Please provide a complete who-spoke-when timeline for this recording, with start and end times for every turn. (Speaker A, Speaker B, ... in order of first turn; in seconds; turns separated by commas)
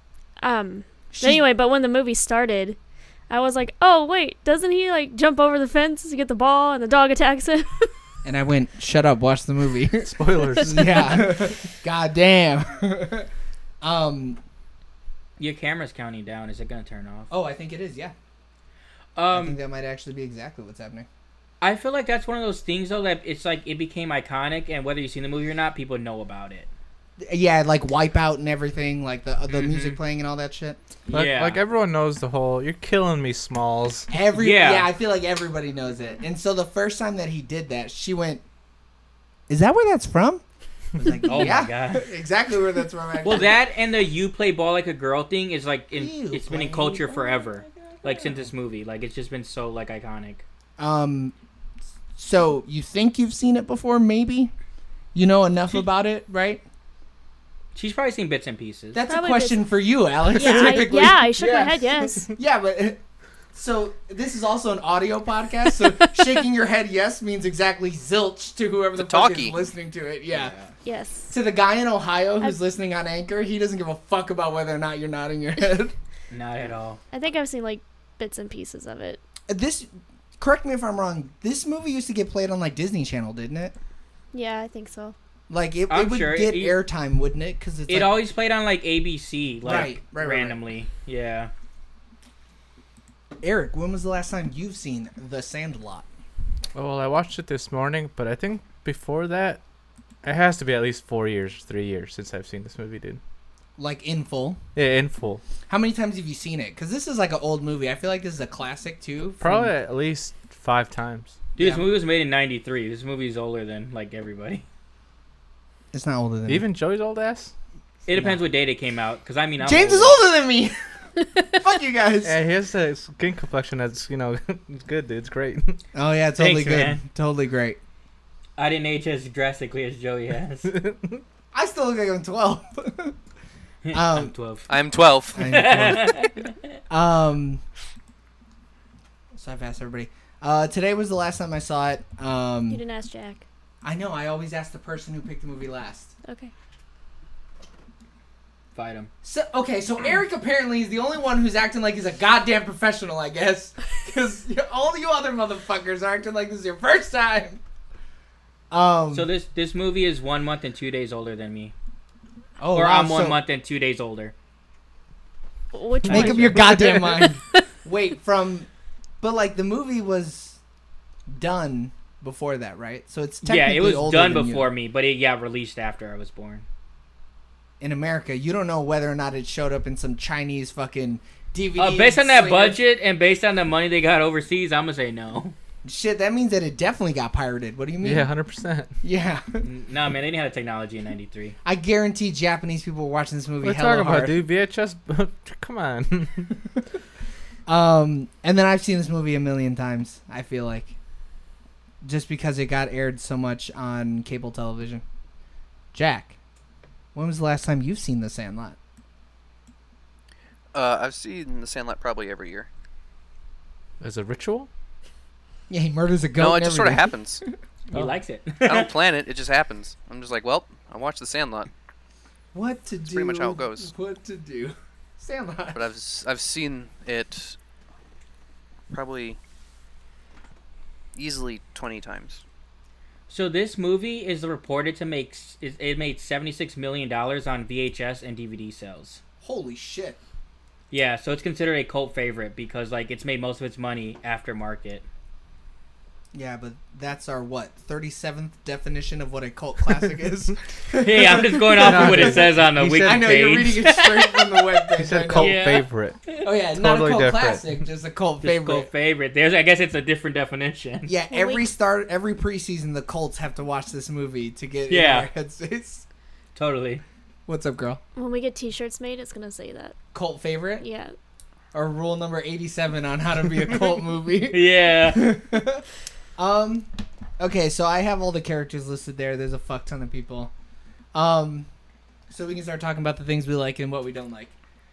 Speaker A: 0.4-2.8, Speaker B: 1.1-1.4, Speaker A: 3.3-7.9, Speaker B: 8.2-13.3, Speaker C: 10.0-11.2, Speaker B: 13.8-14.4, Speaker D: 15.4-17.3, Speaker B: 17.3-18.1, Speaker D: 19.2-19.6, Speaker B: 19.3-21.1, Speaker D: 21.6-26.7, Speaker B: 27.2-30.8, Speaker D: 29.5-30.0, Speaker D: 31.1-31.6, Speaker C: 31.1-34.1, Speaker B: 34.1-38.4, Speaker D: 34.3-34.9, Speaker B: 39.5-40.4, Speaker B: 41.0-43.5, Speaker D: 41.3-42.1, Speaker D: 43.2-50.4, Speaker B: 45.9-48.5, Speaker B: 50.8-51.3, Speaker B: 52.2-54.5, Speaker B: 55.1-56.6, Speaker D: 57.8-59.0, Speaker B: 58.9-61.3, Speaker A: 59.1-59.6, Speaker A: 60.3-62.3, Speaker C: 61.4-62.3, Speaker B: 62.4-63.0, Speaker B: 63.5-70.5, Speaker E: 69.0-69.6, Speaker D: 70.3-70.7, Speaker A: 70.8-71.4, Speaker B: 71.3-75.9, Speaker D: 76.3-77.0, Speaker A: 77.1-79.2, Speaker B: 79.5-83.8, Speaker A: 84.3-85.2, Speaker B: 85.5-88.1, Speaker D: 85.9-86.8, Speaker D: 87.9-91.5, Speaker B: 89.6-90.6, Speaker B: 93.4-96.1, Speaker C: 96.8-99.6, Speaker C: 100.2-103.2, Speaker B: 103.8-104.6, Speaker C: 104.8-105.4, Speaker B: 105.7-109.7, Speaker C: 109.4-111.4, Speaker D: 111.6-114.7, Speaker B: 111.6-111.9, Speaker B: 115.9-116.7, Speaker C: 116.5-117.5, Speaker D: 118.1-120.2, Speaker B: 119.6-120.7, Speaker B: 121.5-122.4, Speaker C: 122.2-125.8, Speaker B: 125.9-127.8, Speaker D: 126.4-127.0, Speaker D: 128.6-130.7, Speaker C: 130.7-131.2, Speaker B: 131.5-133.2, Speaker D: 133.8-134.7, Speaker B: 133.9-134.3, Speaker E: 134.7-135.6, Speaker B: 135.3-136.2, Speaker D: 135.4-136.5, Speaker B: 136.9-137.6, Speaker B: 139.3-142.8, Speaker A: 142.7-143.4, Speaker B: 143.8-146.1, Speaker A: 146.3-146.5, Speaker D: 148.8-149.1, Speaker B: 149.2-157.6, Speaker B: 158.7-159.3, Speaker D: 159.1-161.7, Speaker B: 162.6-163.4, Speaker D: 162.7-164.3, Speaker A: 165.7-167.6, Speaker B: 166.1-168.7, Speaker C: 166.1-167.0, Speaker B: 169.2-170.6, Speaker B: 171.3-174.7, Speaker D: 173.4-176.7, Speaker B: 177.8-182.8, Speaker D: 181.8-185.6, Speaker B: 185.8-188.3, Speaker C: 188.0-188.9, Speaker B: 189.0-189.7, Speaker D: 189.6-191.6, Speaker B: 191.6-194.4, Speaker C: 193.6-196.5, Speaker B: 197.7-200.9, Speaker B: 202.0-205.0, Speaker B: 205.9-206.4, Speaker B: 207.2-208.8, Speaker E: 210.7-212.7, Speaker C: 214.0-214.7, Speaker B: 215.7-217.2, Speaker E: 216.4-217.4, Speaker D: 217.9-218.9, Speaker C: 217.9-218.2, Speaker E: 218.7-221.7, Speaker B: 222.5-225.9, Speaker E: 223.1-223.9, Speaker E: 225.7-227.6, Speaker E: 228.9-229.4, Speaker E: 231.2-232.4, Speaker D: 233.3-239.2, Speaker B: 239.4-240.2, Speaker D: 240.9-245.1, Speaker B: 246.3-252.4, Speaker D: 250.9-254.8, Speaker C: 251.8-253.7, Speaker B: 253.0-255.6, Speaker C: 255.0-257.6, Speaker D: 255.3-255.9, Speaker B: 256.4-258.9, Speaker D: 258.4-261.1, Speaker B: 261.1-266.1, Speaker A: 261.3-261.7, Speaker D: 264.9-265.3, Speaker D: 266.6-267.0, Speaker B: 267.5-268.0, Speaker A: 268.1-269.9, Speaker B: 270.1-270.9, Speaker A: 270.8-271.1, Speaker B: 271.7-275.8, Speaker D: 274.5-275.3, Speaker B: 276.4-276.9, Speaker B: 277.4-280.5, Speaker B: 281.1-281.7, Speaker B: 282.3-284.5